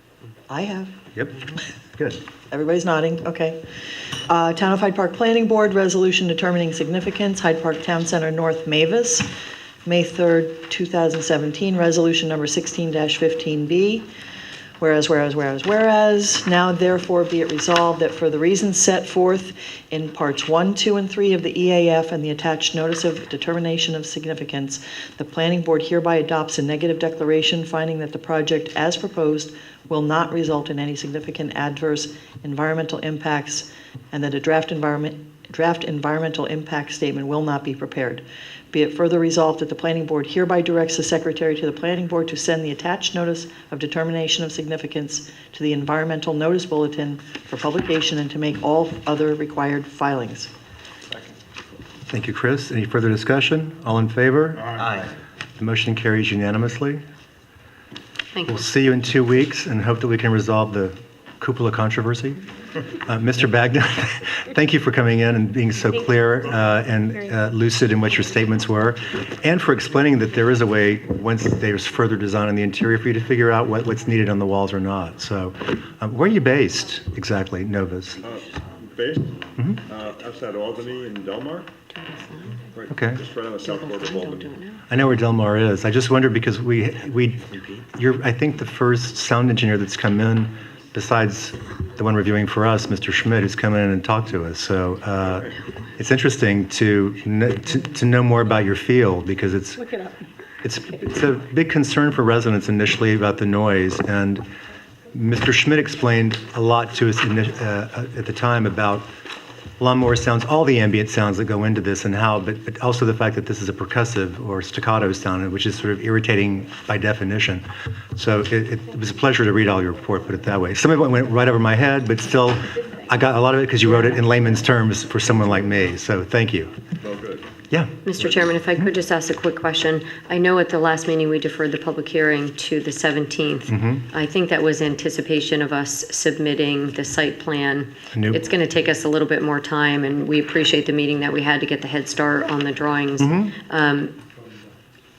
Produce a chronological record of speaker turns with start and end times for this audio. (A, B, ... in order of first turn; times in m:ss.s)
0:00.5-0:01.0 A
0:02.5-0:03.6 A
0:04.2-0:09.3 A
0:09.8-0:14.1 A
0:14.8-0:50.5 A
0:52.1-0:54.8 B
0:55.6-0:57.0 B
0:58.3-0:58.6 C
0:58.5-1:02.4 B
1:03.0-1:18.2 B
1:18.2-1:21.7 D
1:19.6-1:19.8 B
1:21.9-1:22.6 C
1:22.8-1:24.5 D
1:22.9-1:23.2 B
1:23.6-1:24.8 C
1:24.9-1:39.9 B
1:40.6-1:44.4 B
1:45.1-1:49.1 B
1:49.8-1:57.6 B
1:58.2-2:06.7 B
2:07.0-2:07.4 D
2:07.7-2:08.0 B
2:08.0-2:24.2 C
2:13.7-2:14.0 B
2:18.1-2:18.4 B
2:23.2-2:23.5 B